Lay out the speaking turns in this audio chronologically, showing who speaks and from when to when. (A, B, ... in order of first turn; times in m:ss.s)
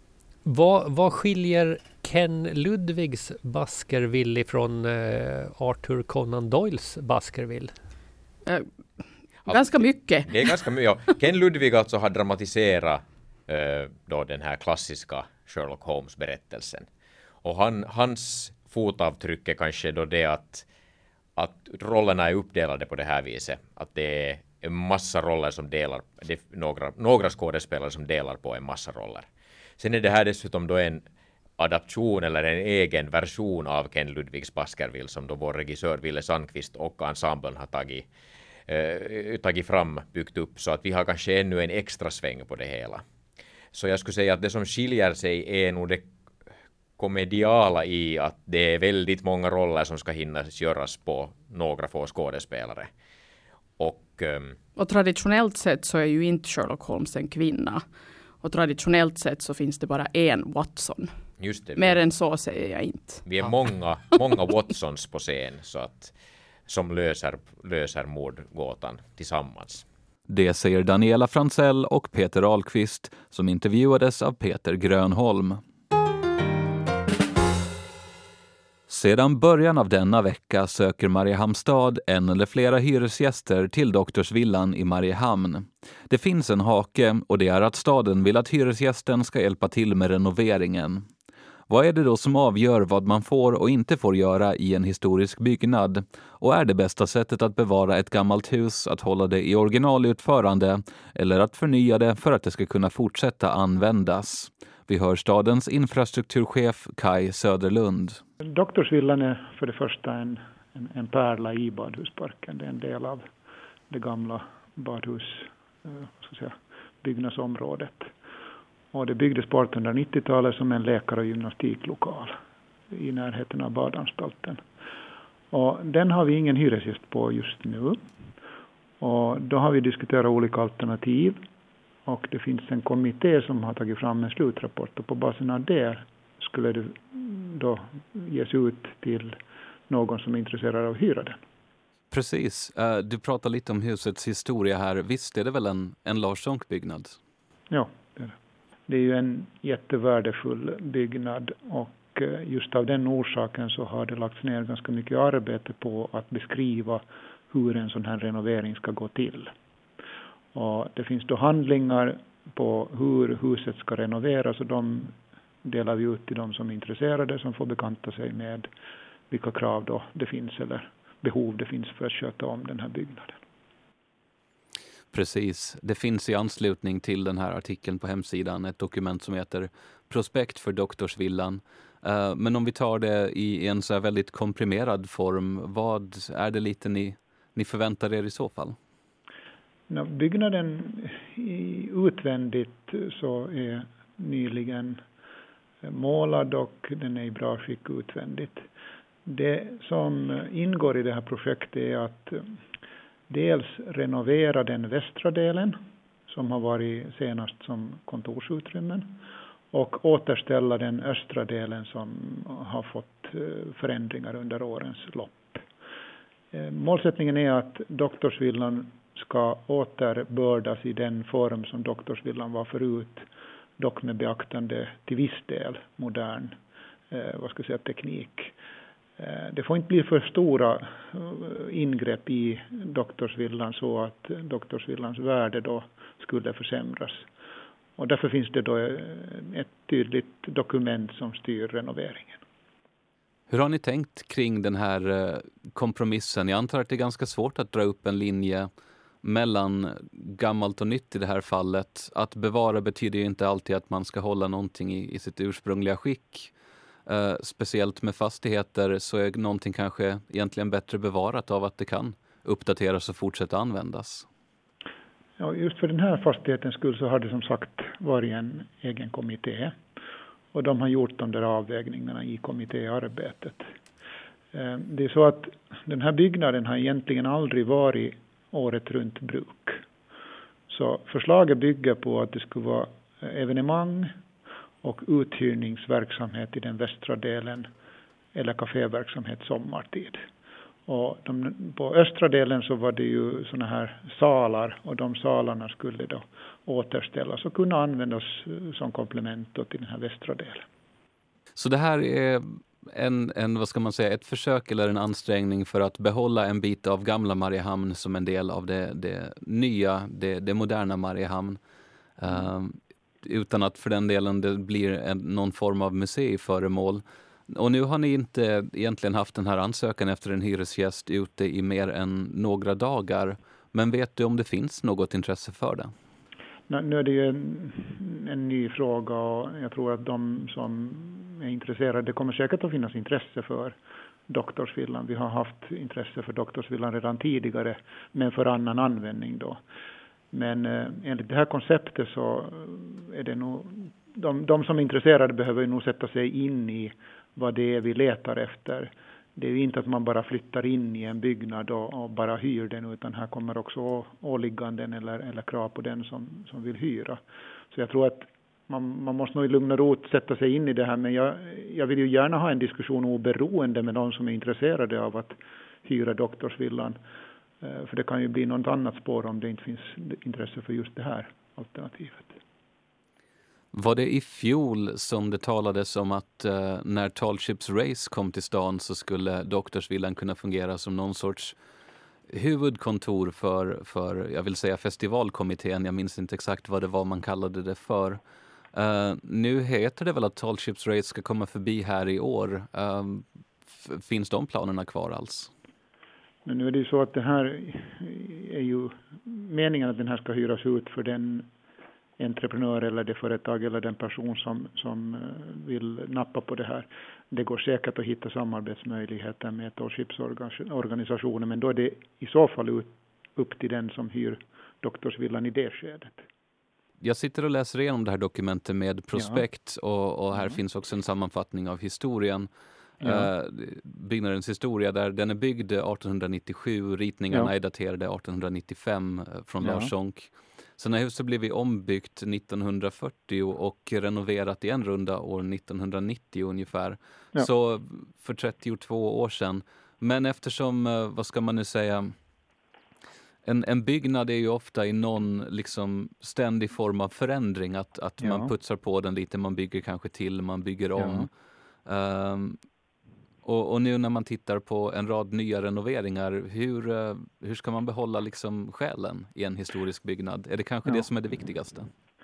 0:00.4-0:07.8 A
0:08.4-0:10.6 B
0:09.4-0:16.9 C
0:17.4-0:20.6 C
0:21.4-0:29.3 C
0:29.8-0:31.0 C
0:31.6-0:38.1 C
0:38.7-0:43.0 C
0:43.7-0:46.1 C
0:47.0-0:52.9 C
0:53.8-0:54.6 C
0:54.8-0:57.8 B
0:58.4-1:03.2 B
1:01.4-1:02.0 C
1:03.2-1:06.1 C
1:06.7-1:09.8 C
1:10.3-1:15.6 D
1:18.9-1:31.1 D
1:31.7-1:48.2 D
1:48.5-1:53.2 E
1:53.9-1:58.1 E
1:58.9-2:02.3 E
2:02.9-2:04.6 E
2:05.5-2:08.0 E
2:09.0-2:11.4 E
2:12.0-2:19.4 E
2:19.9-2:21.4 E
2:22.1-2:27.2 D
2:27.7-2:28.3 E
2:28.9-2:39.5 E
2:40.5-2:48.7 E
2:49.3-2:53.4 E
2:55.1-3:08.8 D
3:09.9-3:15.0 E
3:15.8-3:18.6 E
3:19.3-3:22.5 E
3:23.3-3:29.1 E
3:29.7-3:35.6 E
3:36.5-3:43.3 E
3:43.8-3:46.6 E
3:47.1-3:48.5 E
3:49.2-3:57.2 E
3:58.0-4:02.4 E
4:03.5-4:08.7 D
4:09.2-4:16.5 D
4:17.0-4:24.3 D
4:25.4-4:29.8 E
4:30.5-4:33.6 E
4:34.5-4:39.8 E
4:40.7-4:44.1 E
4:44.8-4:47.7 E
4:48.3-4:50.2 E
4:50.9-5:00.6 E
5:01.6-5:11.6 D
5:12.2-5:25.9 D
5:26.7-5:33.8 E
5:34.3-5:39.6 E
5:40.3-5:57.2 E
5:57.7-6:07.0 E
6:07.6-6:12.3 E
6:13.7-6:21.6 D
6:22.3-6:28.2 D
6:28.7-6:35.5 D
6:36.4-6:41.5 E
6:42.2-6:56.2 E
6:57.0-7:02.5 D
6:59.1-6:59.4 E
7:03.0-7:03.3 E
7:03.0-7:22.1 D
7:09.6-7:09.9 E
7:23.4-7:31.3 D
7:28.2-7:28.5 E
7:31.0-7:31.3 E
7:31.8-7:32.6 D
7:33.4-7:41.9 D